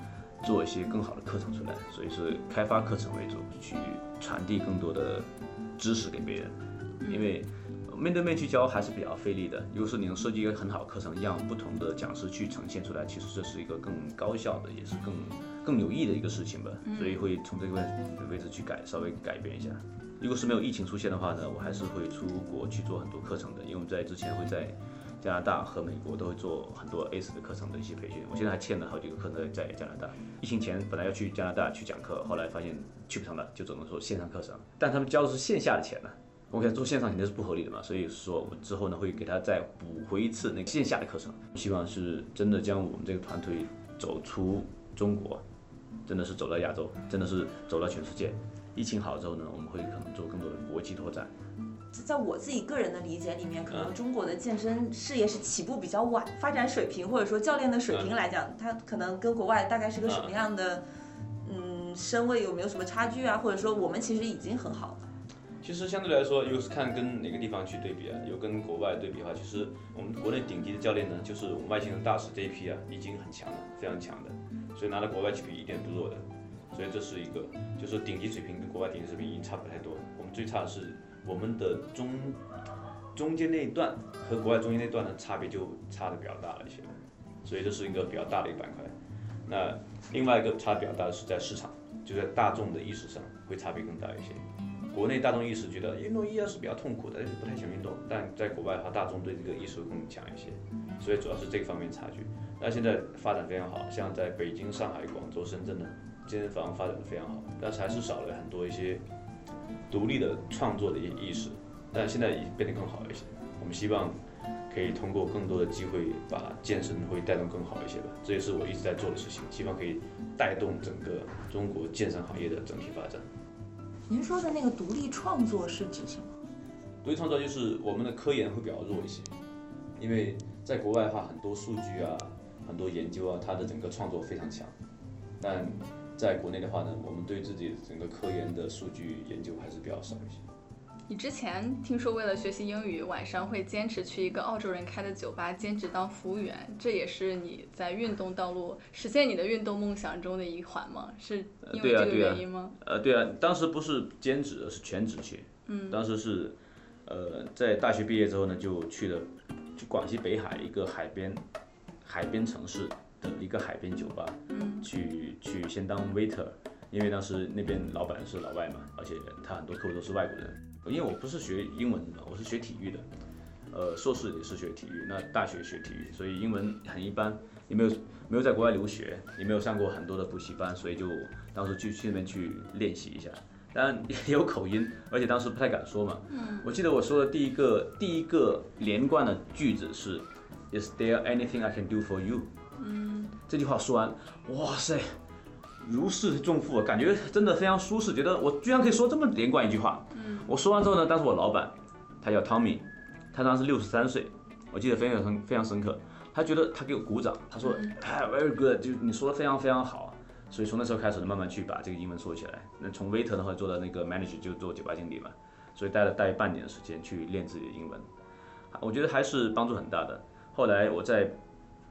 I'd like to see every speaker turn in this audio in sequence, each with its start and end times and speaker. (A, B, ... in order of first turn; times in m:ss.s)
0:00.4-0:45.4 A
0:07.0-0:07.3 B
0:16.9-0:17.2 B
0:46.1-0:51.3 A
0:51.9-1:00.8 C
1:00.1-1:00.3 A
1:01.4-1:05.0 C
1:05.6-1:22.4 A
1:23.2-1:28.9 A
1:29.5-1:49.0 A
1:49.9-1:54.2 A
1:54.7-2:03.3 A
2:04.1-2:06.4 C
2:07.0-2:09.3 A
2:10.0-2:14.7 A
2:15.4-2:20.4 A
2:21.1-2:32.8 B
2:31.6-2:41.4 A
2:35.7-2:36.0 B
2:42.0-2:53.0 A
2:44.5-2:44.9 B
2:53.7-3:12.5 A
3:06.3-3:06.7 B
3:12.8-3:13.3 B
3:13.4-3:15.2 A
3:15.8-3:38.1 A
3:20.2-3:20.5 B
3:38.7-3:41.4 A